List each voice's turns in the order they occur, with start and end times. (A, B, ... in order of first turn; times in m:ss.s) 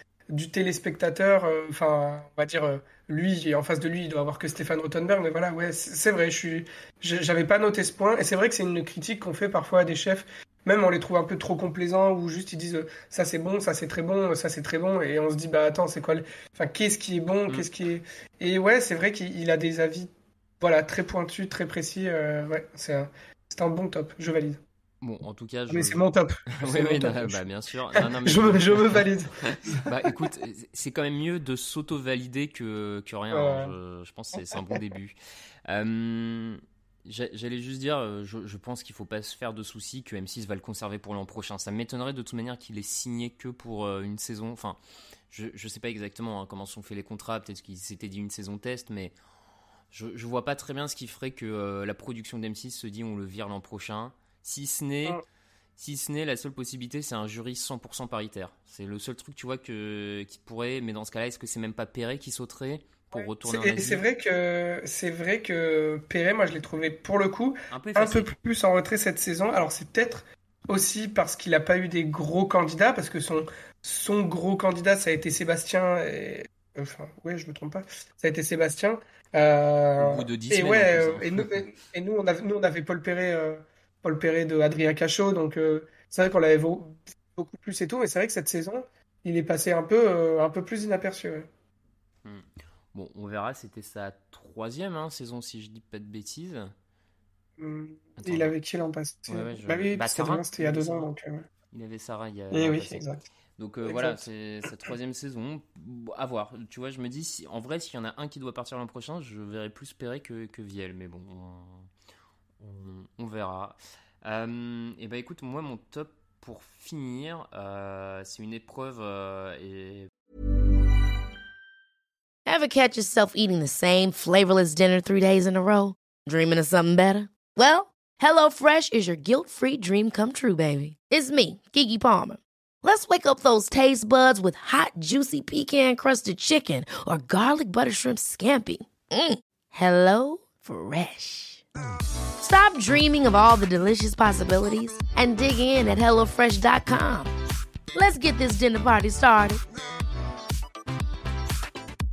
0:00.3-0:24.6 A
0:25.0-0:26.0 B
0:25.7-0:27.4 A
0:26.6-0:29.0 B
0:28.0-0:29.8 A
0:29.8-0:35.2 B
0:33.3-0:33.8 A
0:35.7-0:44.8 B
0:45.3-0:49.1 B
0:49.9-0:55.2 B
0:55.8-1:04.0 B
1:03.1-1:31.5 A
1:07.7-1:08.3 B
1:20.0-1:21.6 B
1:32.2-1:36.7 B
1:37.6-1:41.4 A
1:38.2-1:38.5 B
1:39.3-1:41.1 B
1:41.7-1:43.0 B
1:42.5-1:43.2 A
1:43.6-1:51.9 B
1:43.8-1:44.2 A
1:52.6-2:00.1 B
2:02.5-2:21.6 C
2:22.4-2:27.3 C
2:27.9-2:29.6 C